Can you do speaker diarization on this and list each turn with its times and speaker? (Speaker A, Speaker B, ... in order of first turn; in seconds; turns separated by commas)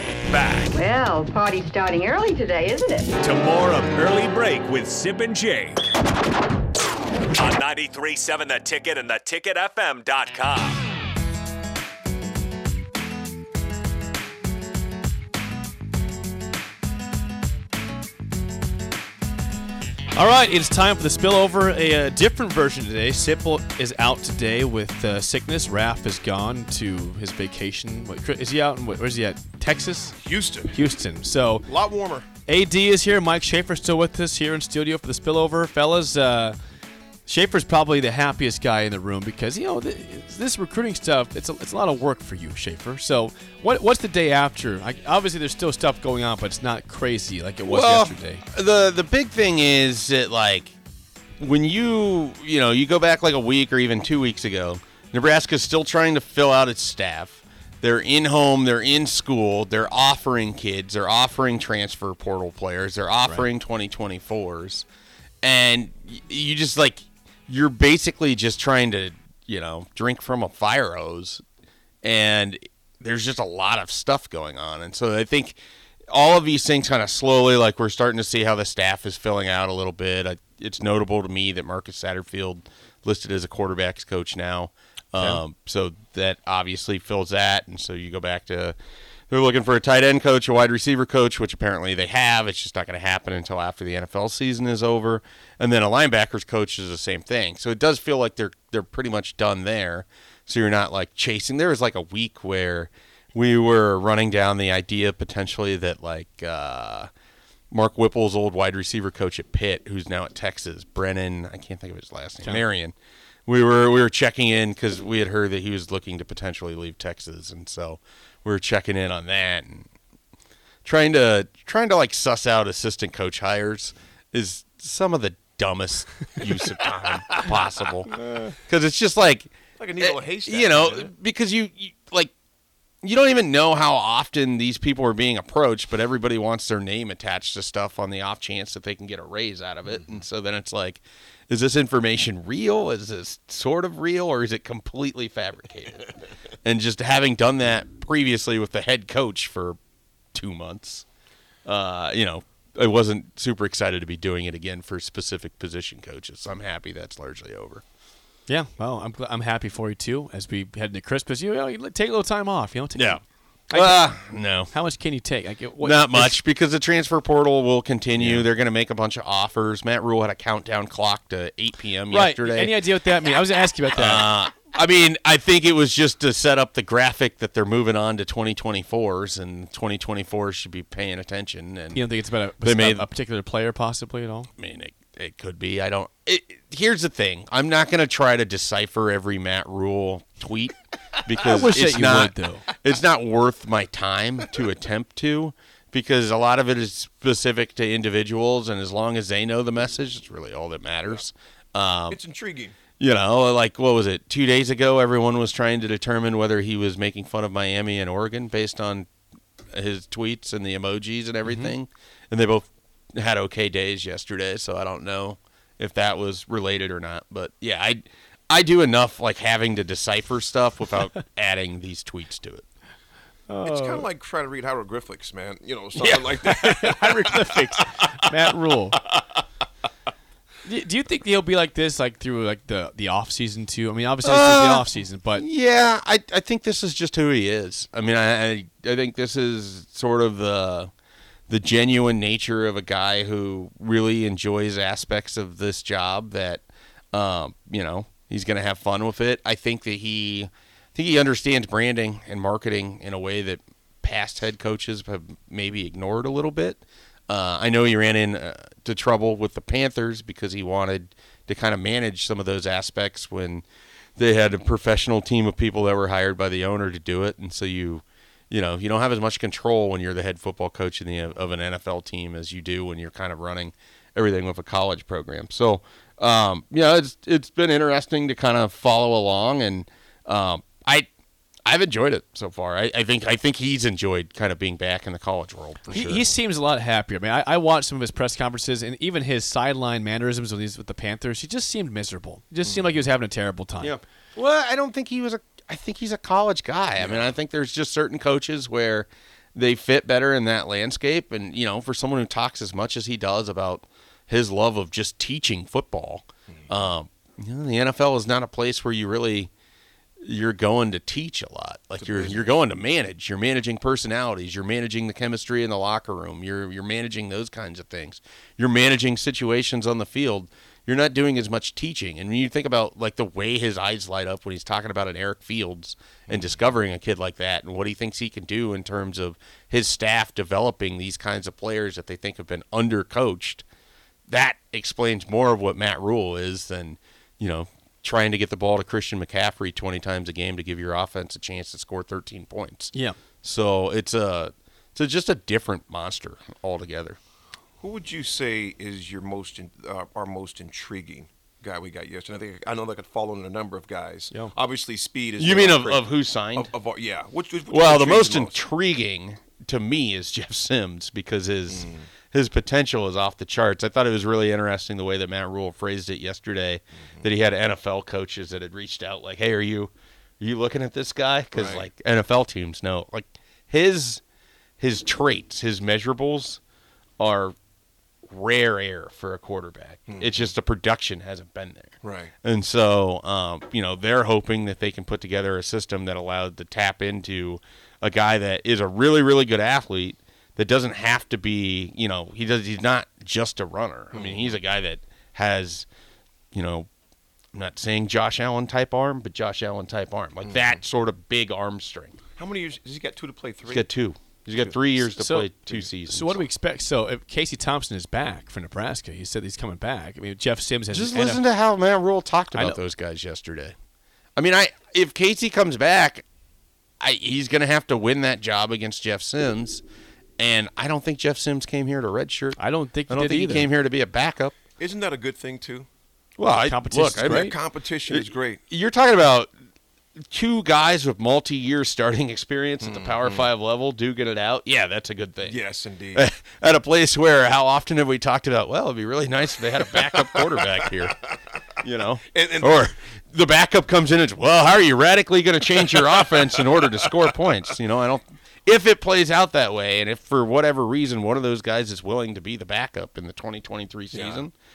Speaker A: 0.3-0.7, Speaker B: 0.7-3.2, Speaker A: 3.2-5.8, Speaker A: 7.4-10.8, Speaker C: 20.1-30.2, Speaker D: 30.2-30.8, Speaker C: 30.7-31.7, Speaker D: 31.6-32.3, Speaker C: 32.5-36.6, Speaker C: 37.3-48.4, Speaker E: 47.6-50.8, Speaker E: 51.4-64.9, Speaker E: 65.4-71.4, Speaker E: 72.0-75.6, Speaker E: 76.1-88.8, Speaker C: 85.2-85.4, Speaker E: 89.3-107.1, Speaker E: 107.7-112.9, Speaker E: 113.5-119.9, Speaker E: 120.8-132.3, Speaker D: 129.8-131.1, Speaker E: 133.0-146.1, Speaker E: 146.6-149.8, Speaker E: 150.3-151.1, Speaker E: 151.7-157.8, Speaker C: 158.5-166.4, Speaker E: 162.9-163.2, Speaker E: 163.7-164.7, Speaker E: 165.8-172.7, Speaker C: 168.2-168.5, Speaker C: 172.1-174.3, Speaker E: 173.9-182.0, Speaker C: 181.9-184.5, Speaker E: 182.6-183.1, Speaker E: 184.6-202.2, Speaker C: 191.4-192.7, Speaker D: 202.1-202.8, Speaker E: 203.0-209.1, Speaker E: 209.7-222.7, Speaker C: 211.4-211.7, Speaker C: 223.5-224.1, Speaker D: 223.6-228.0, Speaker C: 226.0-229.0, Speaker C: 230.6-235.4, Speaker E: 234.2-240.9, Speaker E: 241.5-263.6, Speaker E: 264.2-281.1, Speaker E: 281.7-286.3, Speaker C: 285.9-294.0, Speaker D: 292.7-292.9, Speaker E: 293.8-309.5, Speaker D: 297.0-297.4, Speaker E: 310.2-333.6, Speaker D: 312.0-312.5, Speaker D: 326.3-326.6, Speaker E: 334.3-347.2, Speaker C: 342.9-343.2, Speaker D: 347.8-358.6, Speaker E: 355.4-356.7, Speaker E: 357.7-374.2, Speaker D: 361.7-362.1, Speaker D: 371.5-371.9, Speaker E: 374.8-376.6, Speaker E: 377.2-377.6, Speaker E: 378.3-395.9, Speaker D: 380.1-380.5, Speaker D: 382.0-382.3, Speaker D: 394.1-394.6, Speaker E: 396.5-396.9, Speaker E: 397.5-402.2, Speaker D: 400.4-400.8, Speaker D: 402.4-403.9, Speaker E: 403.6-406.4, Speaker C: 405.0-411.4, Speaker E: 410.9-413.7, Speaker C: 412.5-412.8, Speaker E: 414.4-416.2, Speaker E: 417.0-419.8, Speaker E: 420.4-424.6, Speaker C: 422.6-423.7, Speaker D: 424.8-425.9, Speaker E: 426.4-427.5, Speaker C: 426.4-427.6, Speaker D: 427.2-428.6, Speaker E: 428.1-429.5, Speaker E: 430.3-435.6, Speaker D: 432.8-433.5, Speaker D: 435.4-436.2, Speaker E: 436.1-441.2, Speaker E: 441.8-454.5, Speaker D: 442.3-442.9, Speaker D: 454.1-454.4